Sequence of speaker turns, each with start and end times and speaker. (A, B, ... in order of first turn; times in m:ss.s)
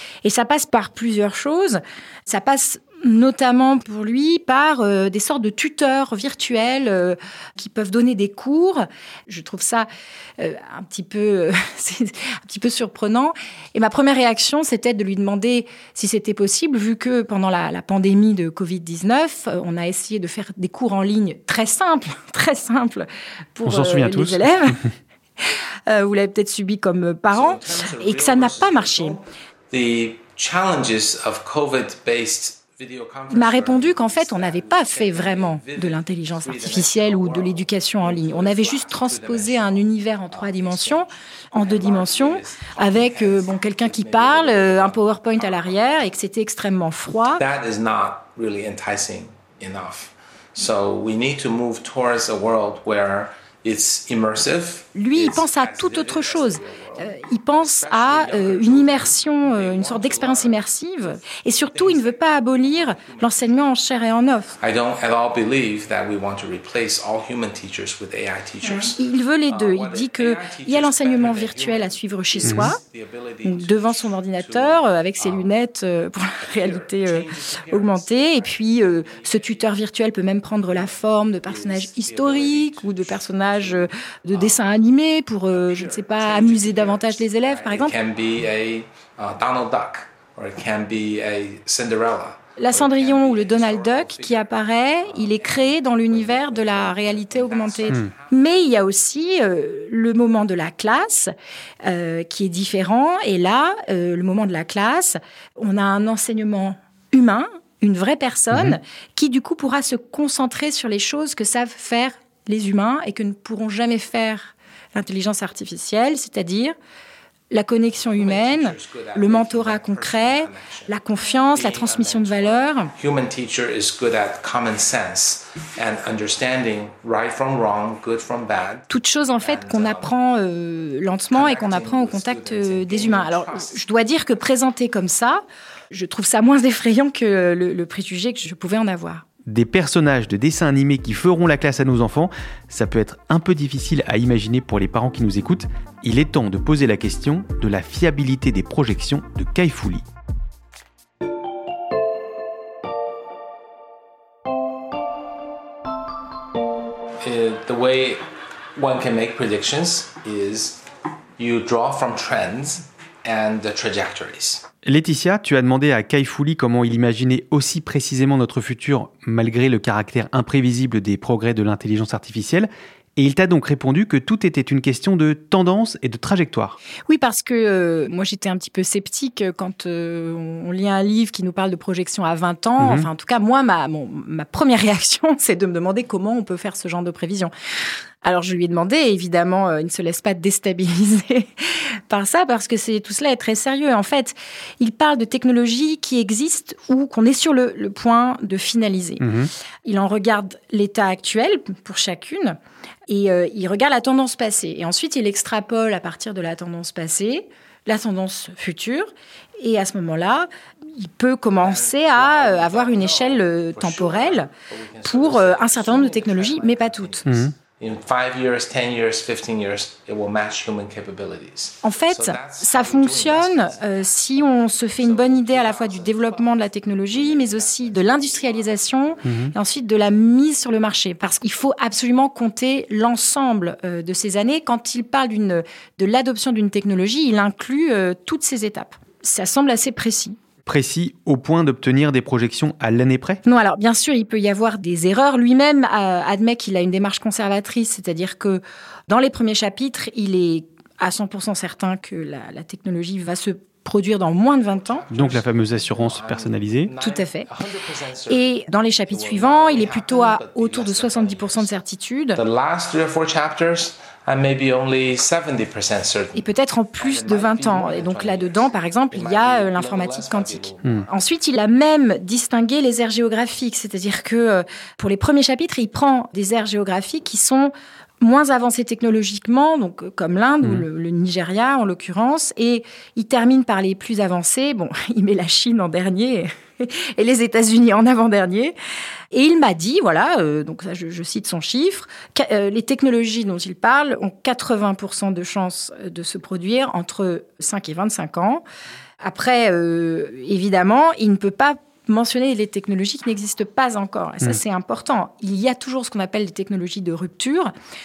0:00.2-0:09.9 A
0:10.4-0:24.8 A
0:23.6-0:24.4 B
0:25.9-0:29.2 A
0:27.3-0:45.9 C
0:33.3-0:47.4 A
0:47.4-1:03.8 C
0:54.9-1:04.6 A
1:04.6-1:15.5 C
1:08.8-1:12.8 A
1:12.4-1:12.7 B
1:13.4-1:28.0 A
1:16.4-1:19.8 C
1:20.7-1:24.8 C
1:25.5-1:38.3 C
1:32.6-1:41.3 A
1:41.8-1:56.7 A
1:48.5-1:48.8 B
1:57.5-2:02.9 A
1:58.0-2:01.0 C
2:01.5-2:10.1 C
2:08.9-2:19.2 A
2:11.3-2:13.7 C
2:19.4-2:30.0 B
2:37.2-2:38.2 C
2:38.8-2:40.8 C
2:41.4-2:44.6 C
2:44.8-2:56.8 B
2:57.1-3:07.5 A
3:02.8-3:03.1 B
3:08.2-3:19.3 A
3:19.2-3:19.5 B
3:19.8-3:34.5 A
3:31.6-3:49.2 C
3:35.0-3:37.3 A
3:37.2-3:37.5 B
3:41.8-4:00.4 A
3:49.2-3:49.5 B
4:00.6-4:03.4 B
4:03.4-4:15.0 A
4:14.8-4:18.5 C
4:15.1-4:16.9 B
4:17.0-4:17.5 A
4:18.3-4:22.4 A
4:19.1-4:21.7 C
4:22.4-4:26.4 C
4:26.4-4:48.7 A
4:27.0-4:31.0 C
4:49.3-4:58.6 A
4:59.2-5:07.7 A